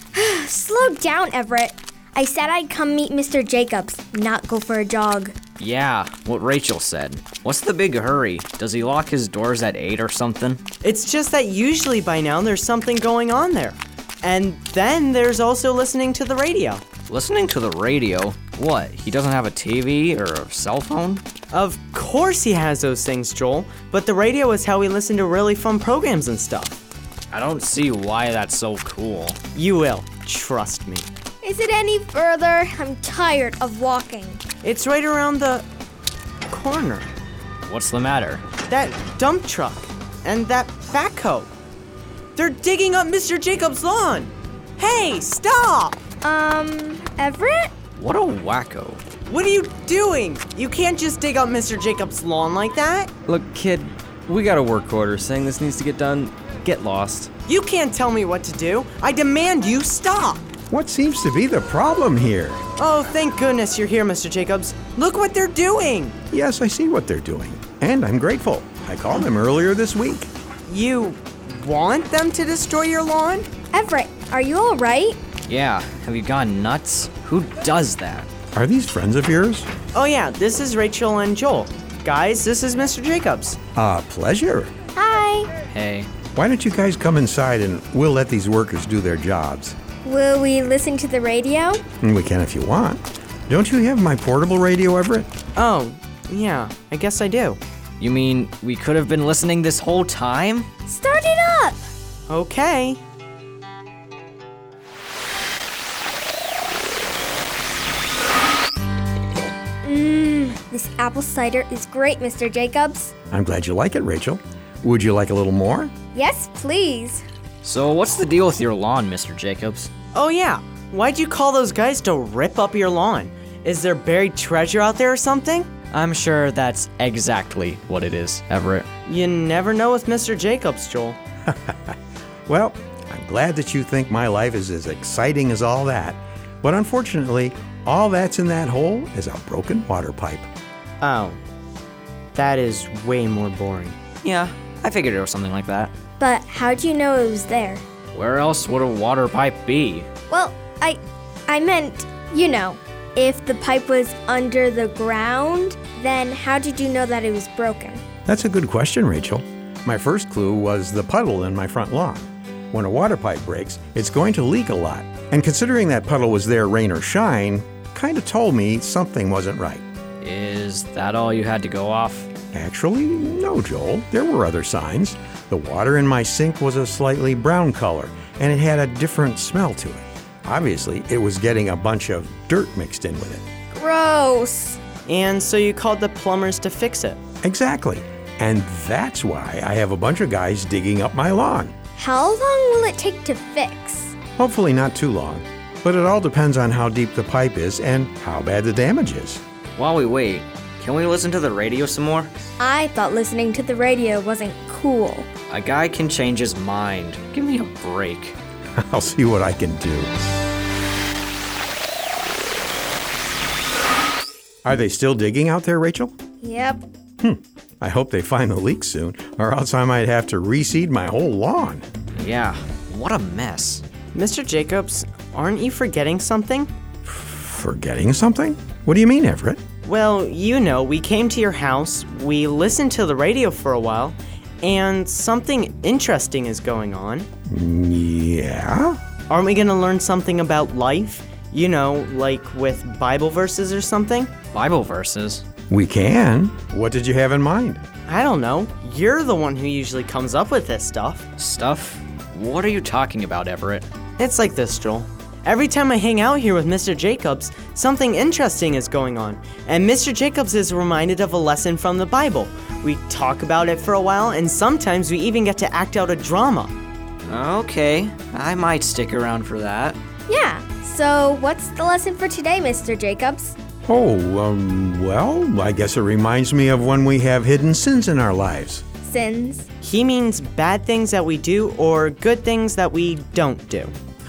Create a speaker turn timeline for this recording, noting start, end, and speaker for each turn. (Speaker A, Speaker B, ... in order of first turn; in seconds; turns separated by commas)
Speaker A: 0.1-5.4, Speaker B: 5.6-10.6, Speaker C: 10.8-16.9, Speaker B: 17.1-21.2, Speaker C: 21.5-26.8, Speaker B: 27.3-29.4, Speaker C: 29.5-31.1, Speaker A: 31.4-34.4, Speaker C: 34.6-35.7, Speaker C: 36.5-37.1, Speaker B: 37.6-38.4, Speaker C: 38.7-41.5, Speaker C: 42.4-46.0, Speaker A: 46.2-47.7, Speaker B: 48.0-49.0, Speaker C: 49.3-53.1, Speaker D: 53.3-57.3, Speaker C: 57.5-60.5, Speaker E: 60.7-62.6, Speaker C: 62.8-66.2, Speaker E: 66.3-70.3, Speaker C: 70.7-73.5, Speaker A: 73.7-75.2, Speaker B: 75.5-78.3, Speaker E: 78.5-79.7, Speaker C: 79.9-83.6, Speaker E: 83.8-84.7, Speaker A: 85.0-85.5, Speaker B: 85.7-86.1, Speaker E: 86.3-89.8, Speaker A: 90.0-91.8, Speaker E: 92.0-95.3, Speaker C: 95.6-97.6, Speaker B: 98.0-100.7, Speaker A: 100.9-101.8, Speaker C: 102.3-103.0, Speaker A: 109.8-113.1, Speaker E: 113.3-115.9, Speaker A: 116.1-117.2, Speaker B: 117.6-119.9, Speaker C: 120.1-125.7, Speaker B: 125.9-128.9, Speaker C: 129.1-131.2, Speaker E: 131.5-131.9, Speaker E: 132.5-140.5, Speaker C: 141.0-141.4, Speaker C: 142.3-144.0, Speaker B: 144.2-145.9, Speaker A: 146.2-147.8, Speaker B: 148.1-150.1, Speaker A: 150.3-158.0, Speaker E: 158.3-169.8, Speaker B: 170.2-172.3, Speaker E: 172.5-183.4, Speaker A: 183.7-184.8, Speaker C: 185.1-187.2, Speaker E: 187.4-191.7, Speaker A: 192.0-194.2, Speaker E: 194.4-199.4, Speaker B: 199.8-202.3, Speaker A: 202.6-205.3, Speaker B: 205.5-208.4, Speaker E: 208.8-210.3, Speaker E: 214.7-216.1, Speaker A: 216.4-216.8, Speaker E: 217.2-221.8, Speaker B: 222.2-223.8, Speaker C: 224.1-226.7, Speaker E: 227.1-229.6, Speaker C: 229.8-237.3, Speaker E: 237.5-239.0, Speaker C: 239.3-244.3, Speaker B: 244.5-245.4, Speaker E: 245.7-247.8, Speaker C: 248.1-251.3, Speaker B: 251.4-253.9, Speaker C: 254.2-266.7, Speaker B: 267.3-270.0, Speaker A: 270.3-273.6, Speaker E: 273.9-278.8, Speaker A: 279.0-279.7, Speaker C: 279.8-283.9